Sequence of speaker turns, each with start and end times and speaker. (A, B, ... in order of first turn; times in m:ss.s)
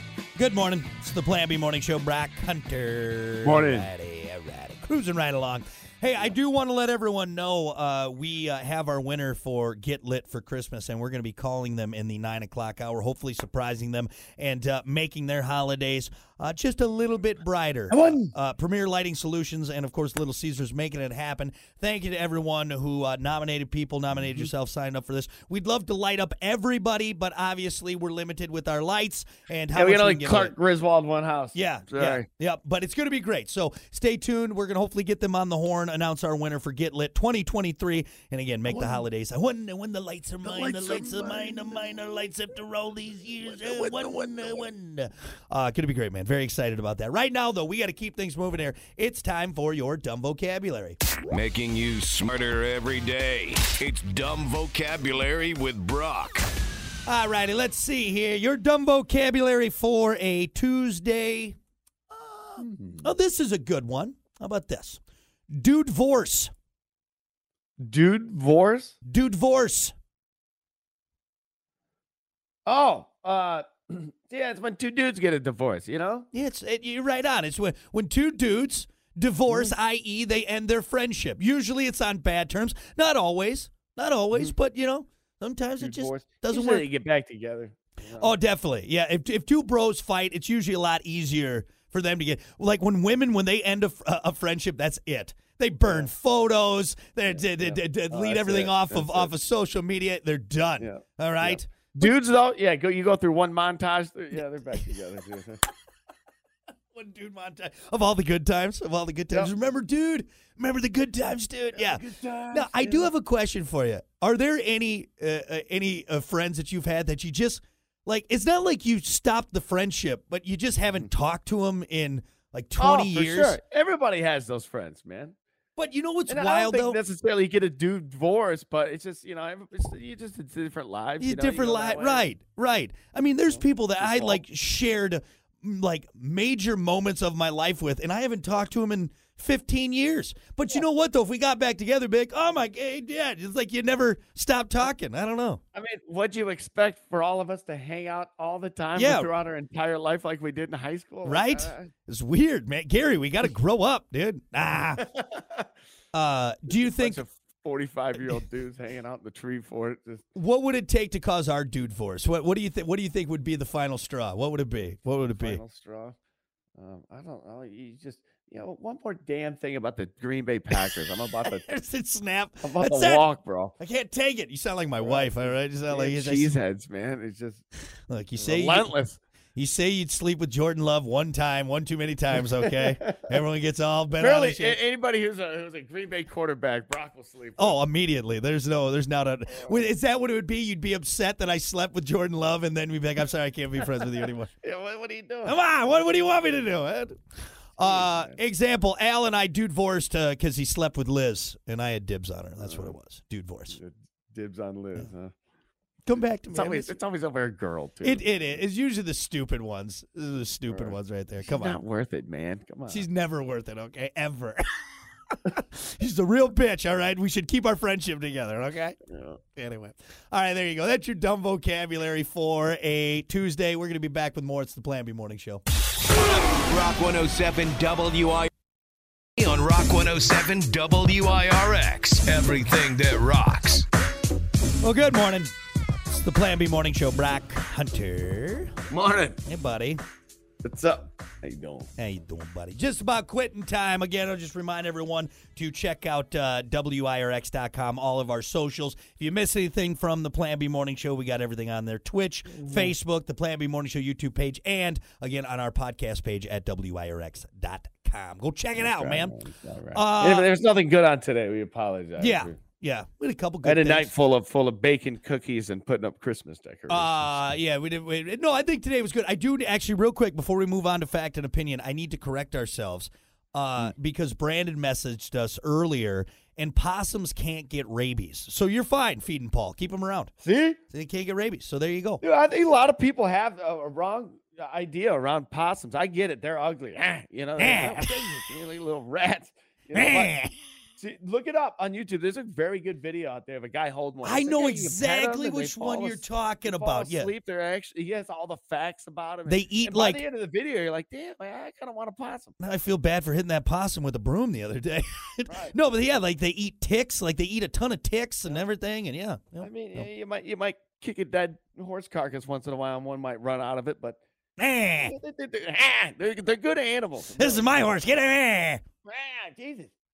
0:00.4-0:30.5 A
0:03.4-0:03.9 B
0:17.9-0:18.3 B
0:29.7-0:32.3 B
0:31.5-0:51.0 A
0:38.7-0:39.0 B
0:40.4-0:42.0 B
0:43.4-0:44.6 B
0:51.3-0:56.5 C
0:57.1-1:01.6 A
1:02.1-1:06.5 A
1:02.6-1:03.1 B
1:07.8-1:09.0 B
1:09.1-1:09.9 A
1:12.7-1:16.3 B
1:16.3-1:26.9 A
1:25.8-1:28.3 B
1:28.2-1:42.2 A
1:35.8-1:36.1 B
1:37.3-1:39.3 B
1:40.8-1:45.6 B
1:46.9-2:03.6 A
1:51.7-1:53.1 B
2:02.8-2:05.4 B
2:05.8-2:07.0 A
2:06.3-2:12.3 B
2:11.2-2:25.6 A
2:13.5-2:14.4 B
2:25.7-2:31.9 B
2:29.0-2:29.3 A
2:31.2-2:35.1 A
2:35.0-2:35.7 B
2:36.1-2:37.2 A
2:36.8-2:40.3 B
2:40.4-2:45.6 A
2:45.4-2:46.2 B
2:46.8-2:51.7 B
2:51.4-2:53.2 A
2:52.6-2:53.8 B
2:53.8-2:56.5 A
2:55.0-2:57.6 B
2:58.1-2:58.9 A
2:58.4-2:59.2 B
2:59.6-3:04.8 A
3:02.5-3:03.3 B
3:04.2-3:07.8 B
3:07.6-3:14.5 A
3:14.6-3:15.6 B
3:15.5-3:17.2 A
3:17.8-3:23.8 A
3:17.8-3:18.4 B
3:22.6-3:23.0 B
3:23.7-3:25.3 B
3:26.0-3:27.0 A
3:26.5-3:28.6 B
3:28.0-3:31.8 A
3:30.7-3:33.1 B
3:32.9-3:34.7 A
3:35.3-3:39.0 A
3:39.1-3:39.4 B
3:39.5-3:45.6 A
3:46.0-3:48.5 C
3:49.4-3:53.9 C
3:54.8-3:55.5 A
3:56.1-3:58.8 A
3:58.9-3:59.4 B
3:59.4-4:00.0 A
4:00.6-4:01.9 B
4:02.0-4:19.4 A
4:12.5-4:12.9 B
4:18.8-4:22.6 B
4:19.9-4:20.5 A
4:22.2-4:24.1 A
4:23.6-4:27.6 B
4:26.9-4:40.3 A
4:40.4-4:40.8 B
4:40.9-4:42.2 A
4:42.2-4:50.4 B
4:47.6-4:48.4 A
4:49.9-4:50.5 A
4:51.0-5:02.6 B
4:54.2-4:57.3 A
4:59.5-5:00.2 A
5:02.6-5:10.1 A
5:05.5-5:05.8 B
5:09.6-5:14.2 B
5:14.6-5:15.1 A
5:15.0-5:17.7 B
5:17.4-5:18.8 A
5:19.1-5:19.9 B